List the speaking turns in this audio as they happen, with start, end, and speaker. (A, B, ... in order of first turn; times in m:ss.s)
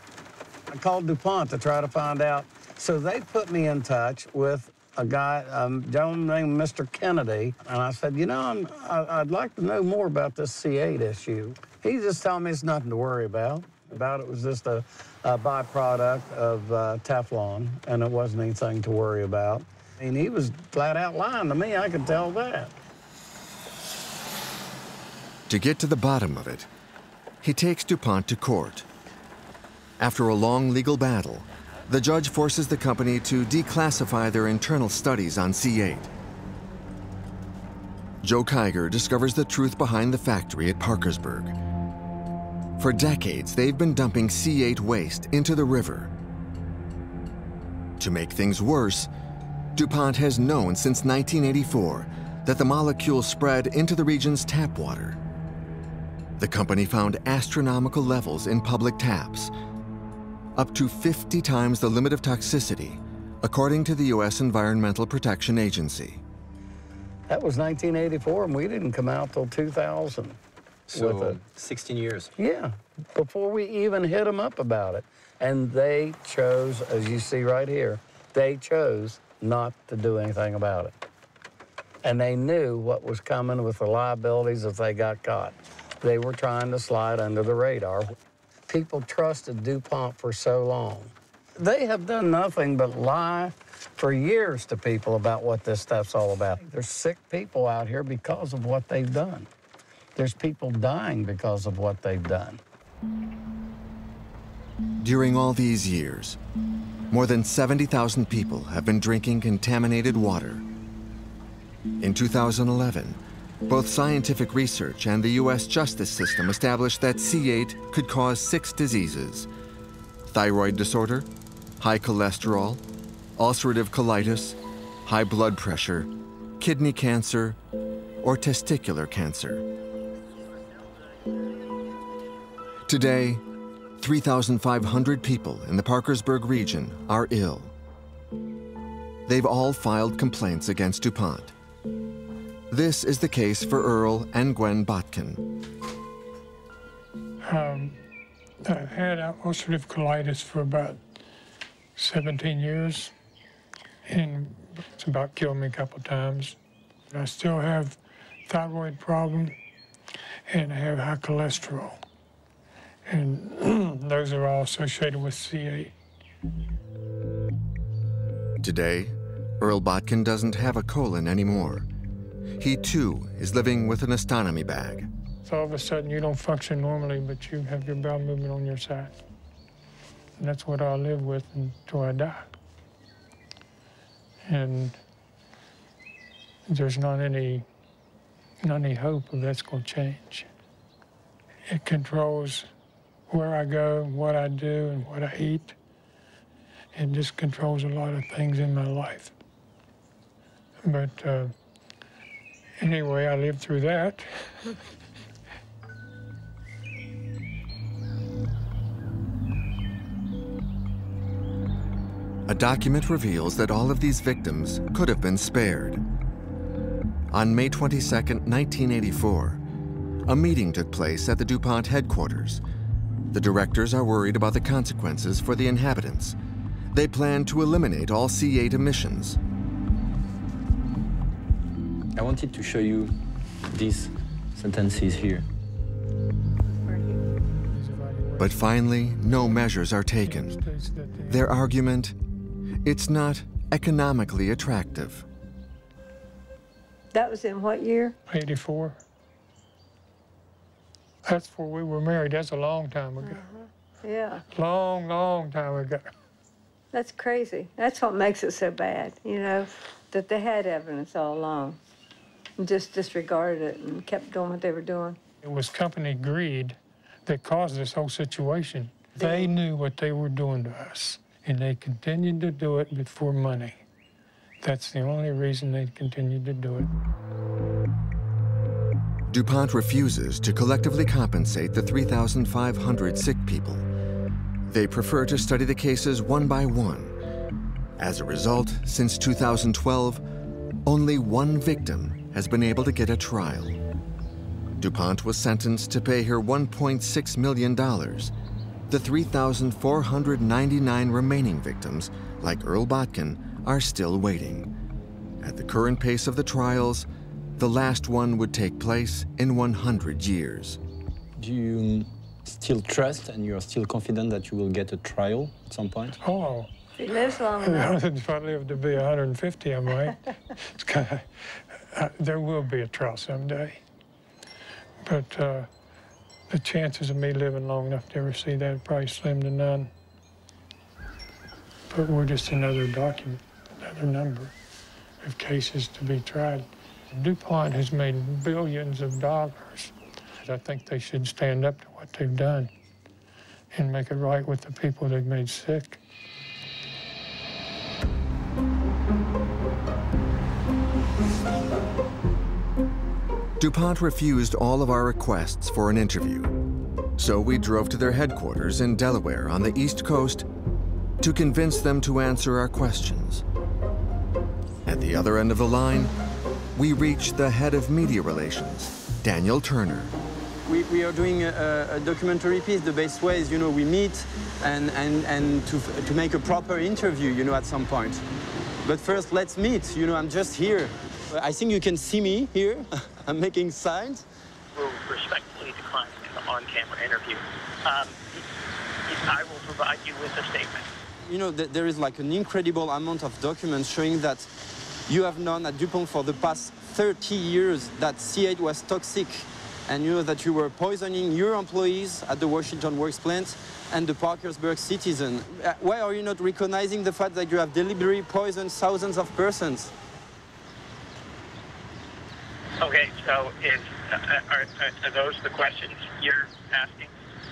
0:00.7-0:22.8 A
0:25.5-0:26.7 B
0:27.4-0:28.8 B
0:30.0-0:36.1 B
0:38.2-0:41.6 B
0:42.8-0:46.1 B
0:48.0-0:49.1 B
0:49.8-0:55.2 B
0:56.4-0:59.5 B
1:00.5-1:06.2 B
1:07.3-1:10.4 A
1:10.9-1:12.3 C
1:10.9-1:11.4 A
1:12.4-1:20.9 A
1:22.0-1:28.1 A
1:28.7-1:39.5 A
1:40.2-1:42.6 A
1:45.0-1:46.4 B
1:47.1-1:50.6 B
1:52.0-1:59.5 B
2:00.3-2:01.3 B
2:01.8-2:02.8 B
2:03.4-2:07.6 B
2:08.2-2:09.6 B
2:12.9-2:13.4 B
2:14.0-2:17.7 B
2:19.3-2:21.5 B
2:22.7-2:25.4 B
2:27.4-2:28.0 D
2:28.6-2:31.0 D
2:32.0-2:33.1 D
2:34.1-2:36.6 D
2:37.1-2:39.5 D
2:40.5-2:42.0 D
2:43.1-2:45.9 D
2:48.6-2:51.9 B
2:52.6-2:55.1 B
2:55.4-2:59.2 D
3:00.4-3:02.5 D
3:04.5-3:05.0 D
3:06.7-3:07.6 D
3:08.6-3:10.5 D
3:11.7-3:12.7 D
3:13.3-3:15.8 D
3:16.9-3:19.3 D
3:20.8-3:21.5 D
3:22.8-3:24.5 D
3:32.5-3:36.0 B
3:37.3-3:39.6 B
3:40.2-3:42.6 B
3:43.3-3:46.4 B
3:46.9-3:49.4 B
3:52.2-3:53.1 C
3:53.7-3:55.4 C
3:56.7-3:57.2 E
3:57.6-3:58.7 D
3:58.4-4:00.6 B
3:59.3-3:59.6 D
4:00.2-4:01.5 D
4:01.3-4:02.1 B
4:02.8-4:05.2 B
4:07.1-4:08.2 E
4:08.3-4:09.0 D
4:11.2-4:13.4 D
4:13.2-4:14.4 E
4:14.5-4:16.1 D
4:16.9-4:21.8 E
4:22.6-4:25.2 E
4:25.4-4:33.8 D
4:29.2-4:29.5 E
4:34.6-4:36.9 D
4:39.3-4:43.9 B
4:44.6-4:47.2 B
4:48.0-4:50.2 B
4:50.8-4:53.8 B
4:54.8-4:58.3 B
4:58.9-5:04.7 B
5:05.4-5:10.8 B
5:11.4-5:16.2 C
5:16.2-5:16.7 D
5:17.0-5:18.0 E
5:17.6-5:23.8 D
5:25.0-5:25.7 D
5:26.5-5:29.9 D
5:31.9-5:34.5 D
5:35.2-5:42.7 D
5:43.7-5:46.0 D
5:53.6-5:56.5 B
5:57.2-6:00.4 B
6:01.2-6:03.4 B
6:04.8-6:06.1 B
6:06.7-6:10.1 B
6:10.6-6:18.2 C
6:18.8-6:24.2 C
6:24.7-6:28.4 F
6:29.1-6:30.9 F
6:31.2-6:34.5 C
6:35.1-6:49.9 C
6:52.8-6:57.1 F